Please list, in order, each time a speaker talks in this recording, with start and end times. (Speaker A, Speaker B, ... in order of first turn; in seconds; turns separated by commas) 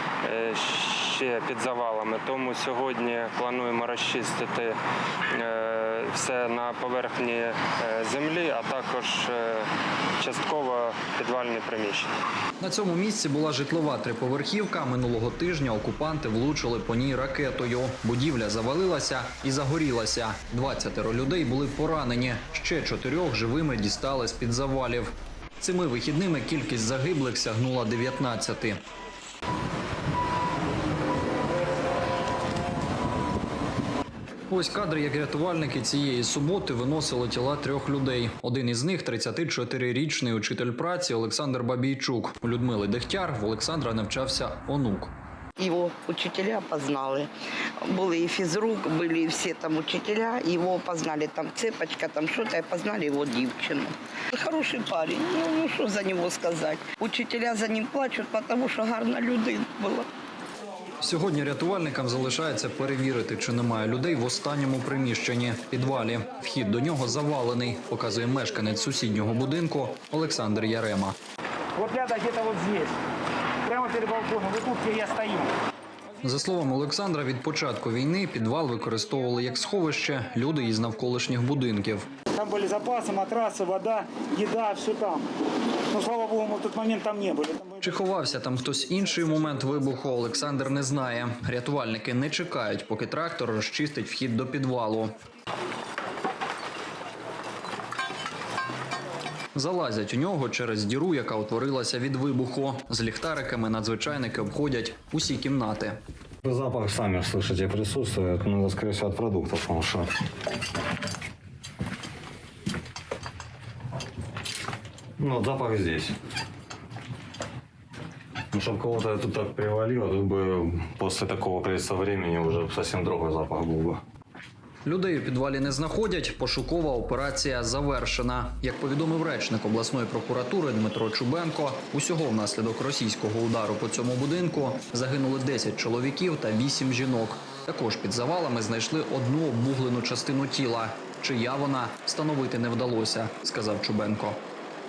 Speaker A: 0.2-4.8, Speaker A: 5.3-9.7, Speaker A: 10.2-12.1, Speaker B: 12.6-28.8, Speaker B: 34.5-45.1, Speaker C: 45.6-47.3, Speaker C: 47.8-60.1, Speaker B: 61.0-71.2, Speaker D: 71.8-73.0, Speaker D: 73.6-75.5, Speaker B: 76.2-82.1, Speaker D: 82.3-85.3, Speaker D: 85.9-87.8, Speaker B: 87.8-95.1, Speaker B: 99.5-106.0, Speaker E: 106.4-110.1, Speaker E: 115.2-116.1, Speaker E: 118.5-124.0, Speaker B: 124.8-144.4